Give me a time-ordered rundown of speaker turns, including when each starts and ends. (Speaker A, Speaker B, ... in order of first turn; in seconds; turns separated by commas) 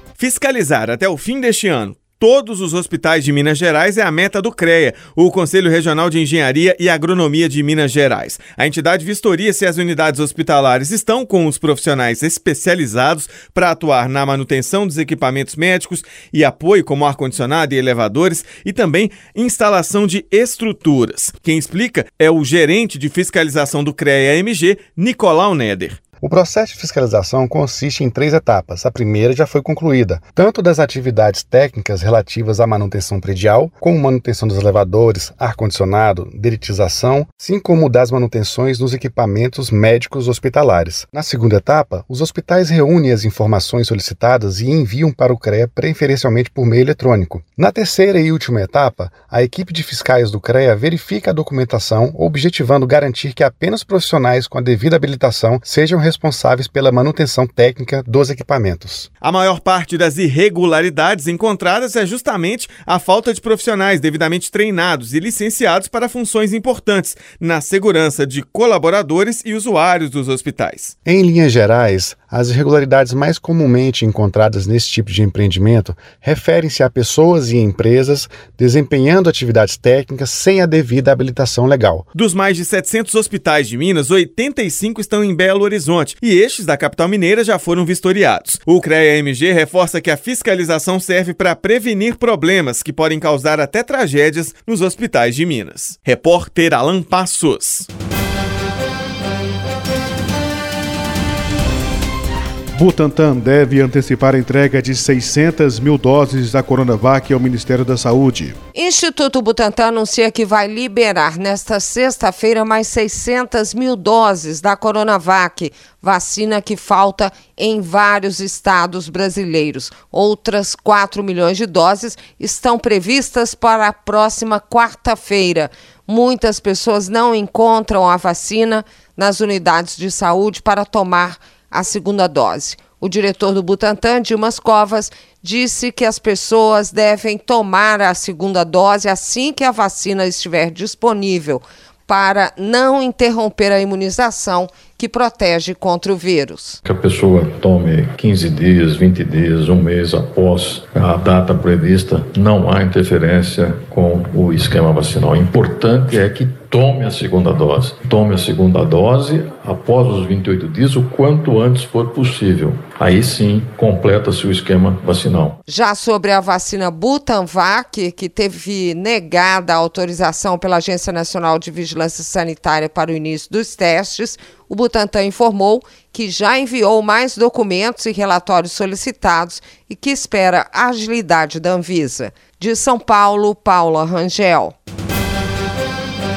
Speaker A: 0.2-26.0, Speaker B: 26.2-59.1, Speaker A: 59.2-70.9, Speaker B: 71.0-82.0, Speaker A: 82.1-97.9, Speaker C: 102.7-108.5, Speaker D: 108.7-146.8, Speaker E: 146.8-165.6, Speaker D: 165.7-184.7